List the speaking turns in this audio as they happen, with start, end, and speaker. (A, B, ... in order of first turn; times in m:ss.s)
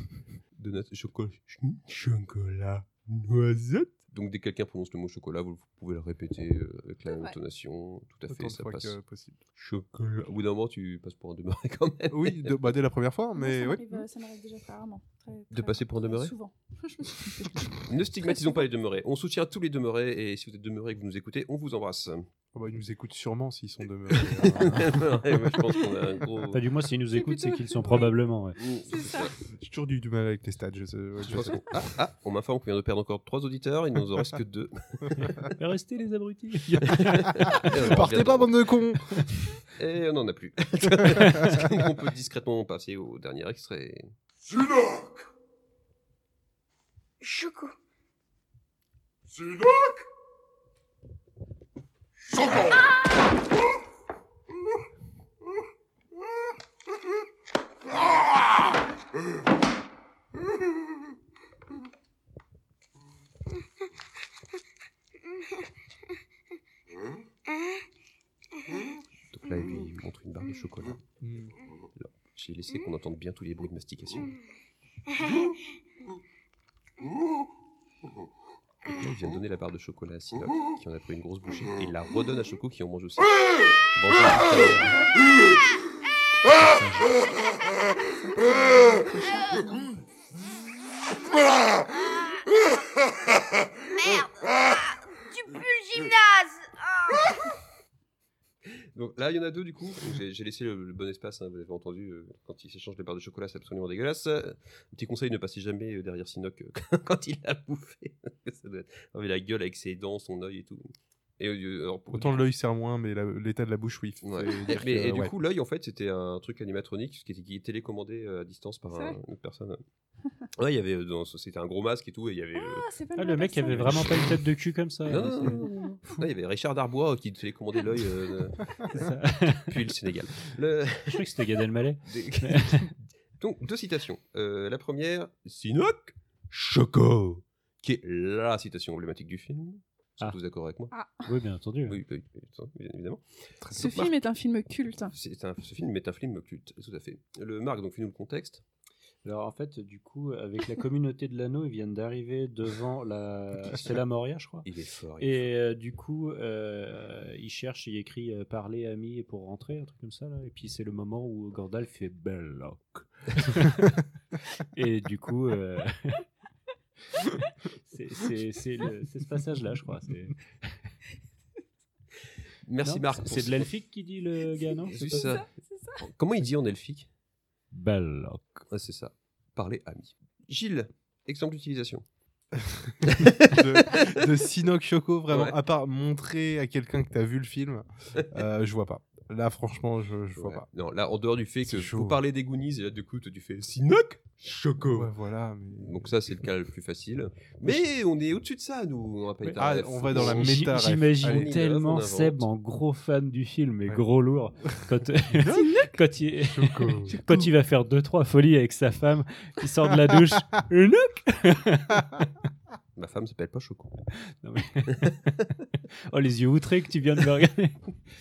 0:00.6-0:09.0 A
0:07.1-0:07.4 B
0:08.3-0:09.4 C
0:09.6-0:12.6 A
0:12.1-0:14.0 C
0:13.4-0:18.6 B
0:15.5-0:16.3 A
0:17.7-0:22.3 A
0:22.5-0:25.2 C
0:24.2-0:26.7 A
0:24.6-0:25.0 D
0:26.5-0:28.6 D
0:27.2-0:29.3 B
0:28.6-0:29.3 A
0:29.5-0:31.6 C
0:31.3-0:35.3 A
0:35.6-0:37.7 D
0:37.0-0:38.6 A
0:37.5-0:39.3 C
0:39.8-0:44.1 A
0:41.1-0:41.6 D
0:47.2-0:47.7 E
1:09.3-1:11.0 A
1:11.2-1:11.5 C
1:12.0-1:14.3 A
1:18.8-1:23.4 A
1:23.9-1:25.0 A
1:24.2-1:25.0 D
1:26.5-1:27.2 D
1:29.0-1:29.7 B
1:32.1-1:32.4 E
1:34.0-1:34.5 E
1:35.2-1:37.3 E
1:38.9-1:50.9 A
1:51.4-1:52.5 A
1:52.1-1:55.4 C
1:54.2-1:59.8 A
1:58.9-1:59.2 B
2:00.5-2:02.9 A
2:02.6-2:04.2 B
2:03.2-2:06.3 D
2:03.7-2:04.4 A
2:05.1-2:20.9 A
2:08.9-2:09.8 D
2:11.1-2:12.9 D
2:20.9-2:21.2 B
2:21.3-2:22.0 D
2:21.9-2:24.2 A
2:23.6-2:24.0 C
2:23.8-2:25.1 B
2:25.1-2:28.6 A
2:29.2-2:34.7 D
2:34.6-2:35.5 A
2:35.2-2:46.2 D
2:47.2-2:50.8 D
2:52.6-2:53.7 A
2:52.8-2:55.3 D
2:54.5-2:56.0 B
2:54.9-2:55.4 A
2:56.0-2:57.1 A
2:57.7-2:58.7 D
2:58.7-3:02.0 A
3:02.6-3:10.7 C
3:03.0-3:04.3 A
3:05.3-3:05.6 A
3:10.4-3:15.1 A
3:11.6-3:12.2 C
3:14.8-3:16.4 C
3:15.8-3:22.5 A
3:19.6-3:21.5 C
3:20.1-3:32.2 D
3:25.5-3:25.9 B
3:26.4-3:27.2 C
3:33.0-3:34.0 A
3:34.4-3:35.6 D
3:36.1-3:37.8 D